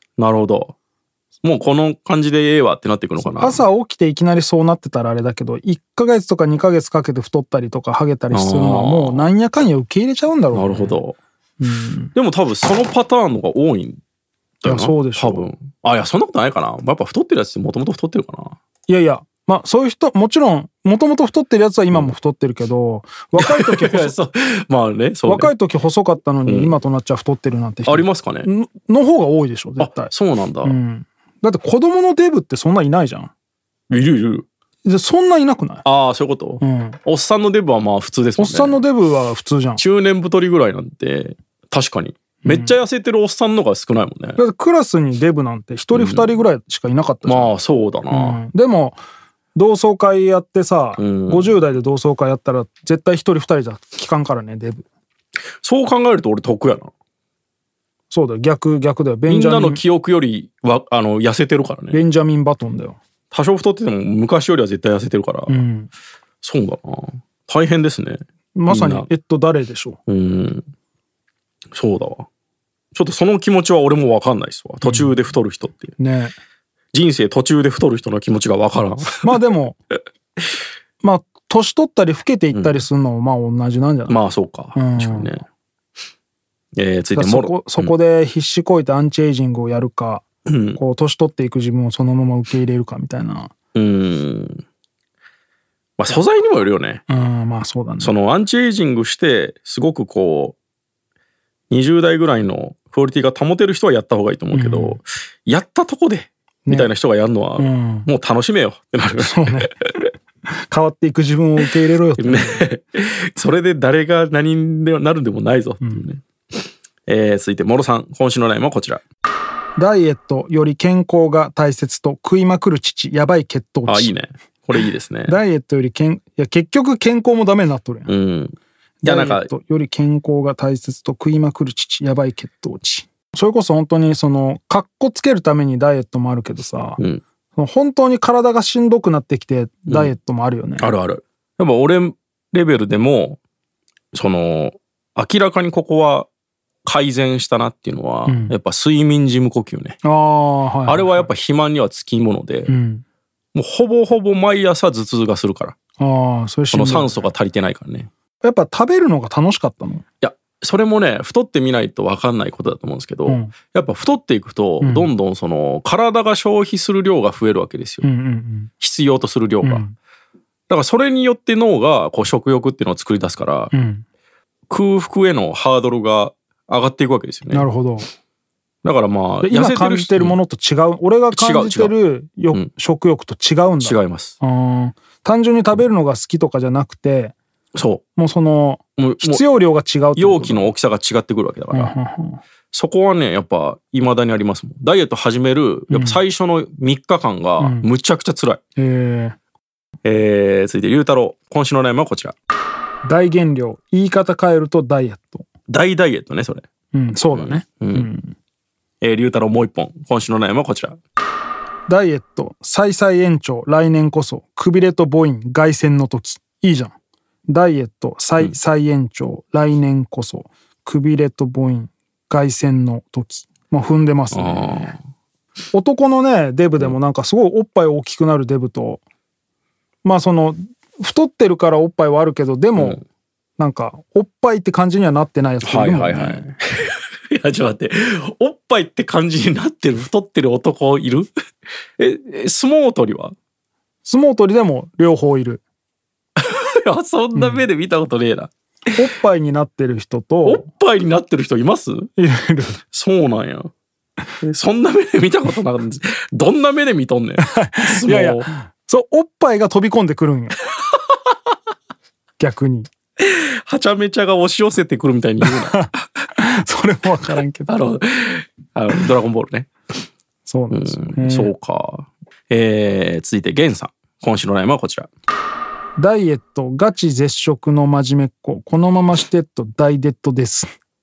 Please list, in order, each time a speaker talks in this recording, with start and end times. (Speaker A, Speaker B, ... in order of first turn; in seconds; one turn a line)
Speaker A: 0.2-0.7
Speaker A: 1.4-3.6
Speaker B: 3.2-11.0
Speaker A: 8.3-9.3
Speaker A: 10.5-11.2
Speaker B: 11.6-12.1
Speaker A: 12.1-14.0
Speaker A: 14.6-18.6
Speaker B: 14.6-15.5
Speaker B: 18.9-24.1
Speaker A: 23.4-25.5
Speaker B: 25.2-30.1
Speaker A: 26.4-26.8
Speaker A: 27.9-28.5
Speaker A: 29.8-30.7
Speaker B: 30.6-33.3
Speaker A: 33.9-34.5
Speaker B: 34.8-35.8
Speaker A: 35.8-38.8
Speaker B: 36.6-37.0
Speaker B: 38.4-39.8
Speaker A: 39.8-44.4
Speaker B: 42.4-42.8
Speaker B: 44.4-47.5
Speaker A: 45.9-46.3
Speaker A: 47.2-48.4
Speaker B: 48.1-49.0
Speaker B: 49.5-54.8
Speaker A: 51.0-51.6
Speaker A: 55.6-56.9
Speaker B: 58.1-59.8
Speaker A: 59.3-62.0
Speaker B: 61.9-63.0
Speaker A: 63.3-65.6
Speaker B: 65.5-65.9
Speaker A: 66.4-69.0
Speaker B: 68.5-70.0
Speaker A: 70.1-70.7
Speaker A: 71.7-72.3
Speaker A: 72.9-75.9
Speaker B: 74.8-75.1
Speaker B: 76.0-76.3
Speaker A: 76.9-79.4
Speaker B: 79.2-79.8
Speaker B: 81.0-84.2
Speaker A: 82.5-82.8
Speaker A: 84.1-85.4
Speaker B: 84.7-85.3
Speaker A: 86.8-87.9
Speaker B: 87.1-93.5
Speaker A: 90.5-90.8
Speaker A: 93.7-94.6
Speaker A: 96.0-97.0
Speaker B: 97.1-98.1
Speaker A: 98.0-100.6
Speaker A: 101.7-109.7
Speaker B: 104.5-105.0
Speaker B: 106.7-106.9
Speaker B: 107.6-108.1
Speaker B: 109.2-109.7
Speaker B: 110.7-112.6
Speaker A: 112.2-116.2
Speaker A: 117.1-119.0
Speaker B: 119.8-124.1
Speaker A: 123.9-125.4
Speaker B: 125.2-128.1
Speaker A: 128.1-129.5
Speaker B: 129.0-137.0
Speaker B: 137.6-140.9
Speaker A: 140.8-143.4
Speaker A: 144.1-146.3
Speaker A: 146.8-150.0
Speaker B: 148.2-148.5
Speaker B: 150.0-151.3
Speaker A: 150.8-152.7
Speaker B: 152.7-153.0
Speaker A: 153.5-155.8
Speaker B: 156.0-157.2
Speaker A: 156.7-158.1
Speaker B: 158.4-160.0
Speaker A: 160.2-168.1
Speaker B: 163.2-163.5
Speaker B: 164.8-165.1
Speaker B: 168.0-168.7
Speaker A: 168.8-169.8
Speaker B: 169.6-169.9
Speaker A: 170.7-173.7
Speaker B: 173.7-174.0
Speaker A: 174.7-177.7
Speaker B: 177.5-178.1
Speaker A: 178.8-180.4
Speaker B: 179.4-187.3
Speaker A: 181.3-181.9
Speaker A: 183.8-184.3
Speaker A: 187.7-188.0
Speaker B: 188.2-190.7
Speaker A: 189.0-189.4
Speaker A: 190.1-191.9
Speaker B: 191.7-192.4
Speaker A: 192.7-198.6
Speaker B: 195.9-196.2
Speaker B: 197.6-197.9
Speaker B: 198.8-199.3
Speaker A: 200.0-202.3
Speaker B: 203.0-205.4
Speaker A: 205.7-206.6
Speaker B: 206.9-208.3
Speaker A: 207.3-208.1
Speaker A: 209.0-211.0
Speaker B: 211.9-216.9
Speaker B: 217.5-224.9
Speaker A: 224.3-225.0
Speaker B: 225.7-229.0
Speaker B: 230.0-233.0
Speaker A: 232.8-233.0
Speaker B: 233.6-236.5
Speaker A: 235.6-241.3
Speaker A: 242.0-243.3
Speaker B: 244.0-245.6
Speaker A: 246.4-248.5
Speaker B: 247.3-247.6
Speaker B: 248.9-250.7
Speaker A: 250.4-252.1
Speaker B: 252.2-252.8
Speaker A: 252.9-253.7
Speaker A: 254.4-258.5
Speaker B: 257.4-260.6
Speaker B: 262.4-262.9
Speaker A: 263.2-265.8
Speaker B: 265.4-267.8
Speaker A: 267.6-269.7
Speaker B: 270.4-271.5
Speaker A: 270.7-275.1
Speaker B: 276.0-280.7